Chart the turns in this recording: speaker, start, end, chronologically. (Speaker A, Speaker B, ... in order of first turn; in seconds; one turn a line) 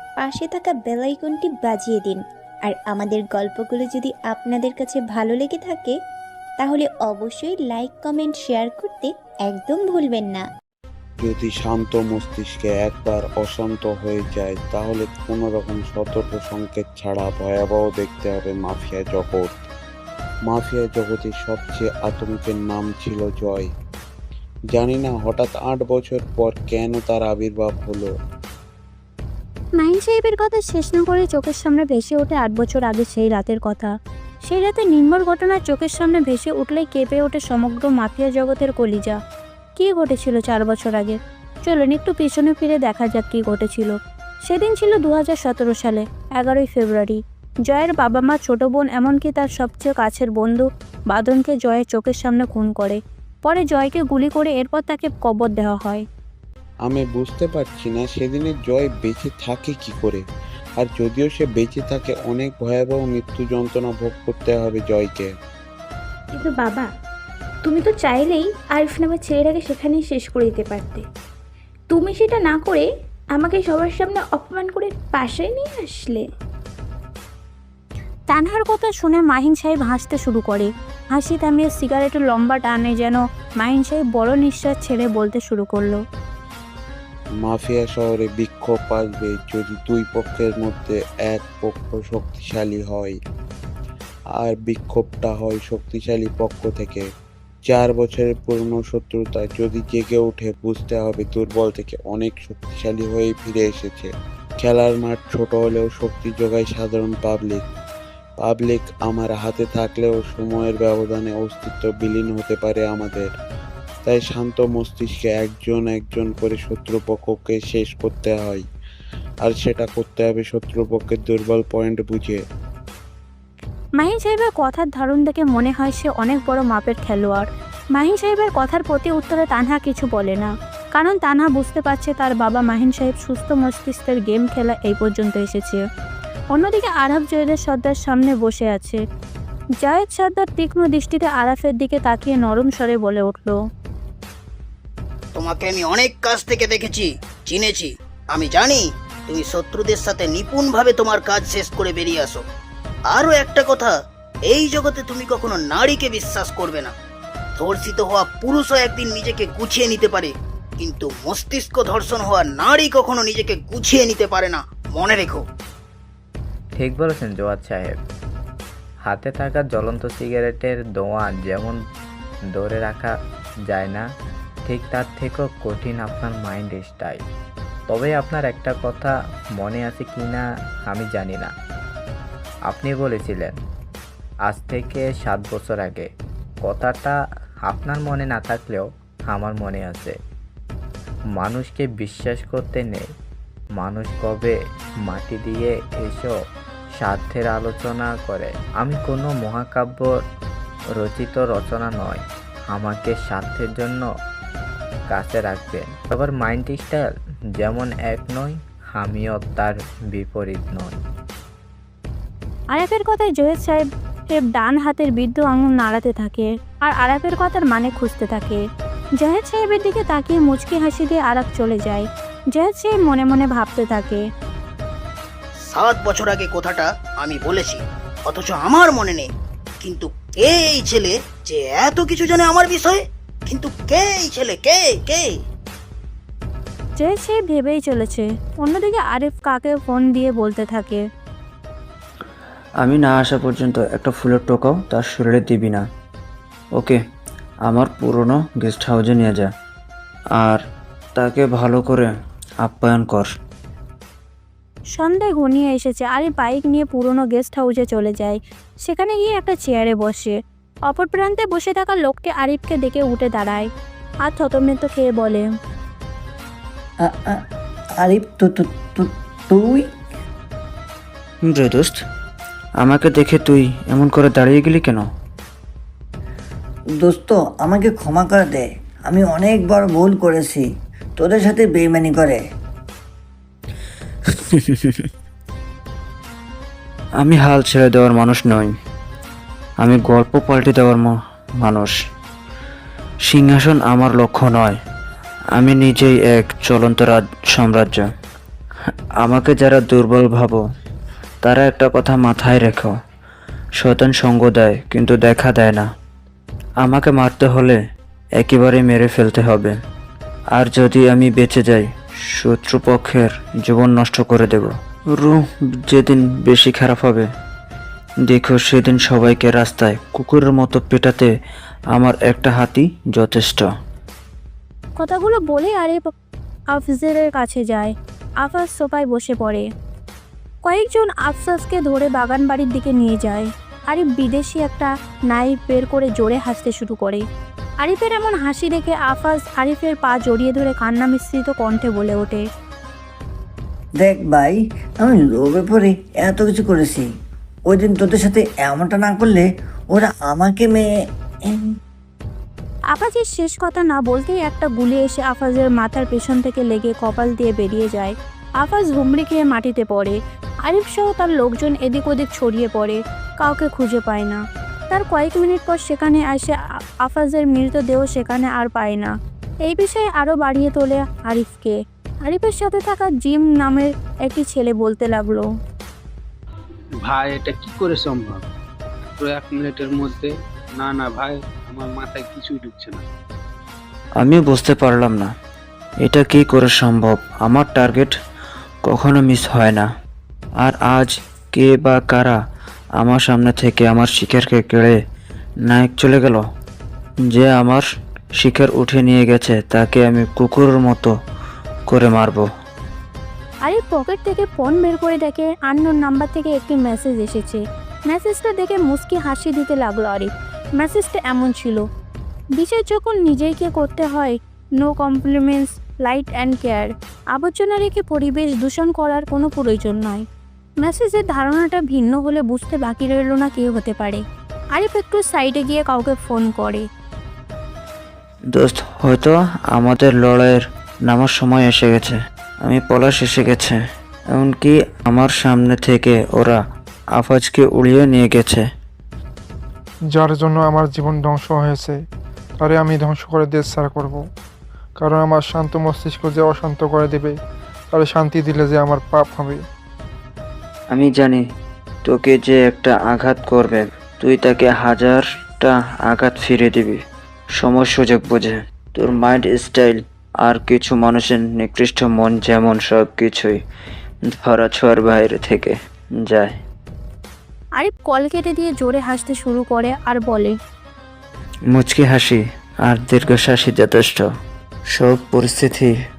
Speaker A: 0.2-5.9
Speaker A: 6.6-10.4
Speaker B: 11.2-19.5
Speaker B: 20.5-23.7
Speaker B: 24.7-28.1
Speaker C: 29.8-33.9
Speaker C: 34.5-39.2
Speaker C: 39.8-56.0
Speaker B: 56.9-60.2
Speaker B: 60.8-65.3
Speaker D: 66.3-66.9
Speaker D: 67.6-71.0
Speaker D: 71.9-76.2
Speaker C: 78.3-86.0
Speaker B: 87.4-93.2
Speaker B: 94.4-97.0
Speaker B: 97.7-107.7
Speaker B: 108.4-113.3
Speaker B: 114.0-118.6
Speaker B: 119.4-122.4
Speaker C: 124.0-135.8
Speaker C: 136.5-139.0
Speaker C: 139.8-143.6
Speaker E: 145.3-152.4
Speaker E: 153.1-156.9
Speaker E: 157.6-165.4
Speaker F: 166.8-167.9
Speaker F: 169.0-171.8
Speaker F: 172.5-173.1
Speaker F: 173.7-174.0
Speaker F: 174.7-177.2
Speaker F: 177.9-181.5
Speaker F: 182.7-183.5
Speaker F: 184.5-186.1
Speaker F: 186.6-187.1
Speaker F: 187.7-190.1
Speaker F: 191.4-193.0
Speaker F: 193.8-194.5
Speaker F: 195.1-196.3
Speaker F: 197.0-200.1
Speaker F: 201.0-204.1
Speaker F: 205.1-210.9
Speaker C: 212.7-218.6
Speaker C: 219.2-224.2
Speaker E: 225.6-229.3
Speaker E: 229.8-235.4
Speaker C: 236.9-241.0
Speaker G: 242.8-245.8
Speaker G: 247.7-249.5
Speaker G: 251.2-252.1
Speaker G: 252.6-253.3
Speaker C: 255.0-260.4
Speaker C: 260.9-263.7
Speaker C: 264.2-265.5
Speaker H: 267.1-267.4
Speaker H: 268.0-269.8
Speaker G: 271.4-272.0
Speaker G: 272.8-275.1
Speaker H: 277.0-280.6
Speaker H: 281.2-282.4
Speaker G: 284.5-285.1
Speaker G: 287.2-288.7
Speaker G: 289.8-291.9
Speaker G: 293.2-294.8
Speaker G: 295.5-298.1
Speaker G: 299.2-300.6
Speaker G: 301.4-302.9
Speaker G: 303.8-305.9
Speaker G: 306.8-307.8
Speaker G: 308.4-309.8
Speaker G: 310.5-317.3
Speaker G: 318.2-321.3
Speaker G: 321.9-323.7
Speaker C: 325.0-326.0
Speaker C: 326.7-329.6
Speaker C: 330.6-337.2
Speaker C: 337.8-342.4
Speaker H: 344.0-347.1
Speaker H: 347.7-350.8
Speaker C: 352.9-369.1
Speaker C: 369.7-375.4
Speaker I: 377.1-378.4
Speaker I: 379.2-380.3
Speaker I: 380.8-383.0
Speaker G: 384.2-385.3
Speaker G: 386.0-388.1
Speaker G: 388.8-389.9
Speaker G: 390.6-392.4
Speaker G: 393.0-394.9
Speaker G: 395.7-396.4
Speaker G: 397.3-397.8
Speaker G: 398.4-401.1
Speaker G: 401.9-402.5
Speaker C: 403.6-411.8
Speaker C: 412.6-420.2
Speaker C: 420.8-424.2
Speaker C: 424.7-426.8
Speaker G: 428.5-433.8
Speaker G: 434.3-436.6
Speaker G: 437.1-438.6
Speaker J: 440.1-441.9
Speaker J: 442.6-444.2
Speaker J: 445.0-447.3
Speaker J: 447.9-449.6
Speaker G: 450.9-451.4
Speaker G: 452.1-457.0
Speaker G: 457.6-463.6
Speaker G: 464.3-466.6
Speaker C: 467.8-470.6
Speaker G: 471.7-474.2
Speaker G: 474.9-475.9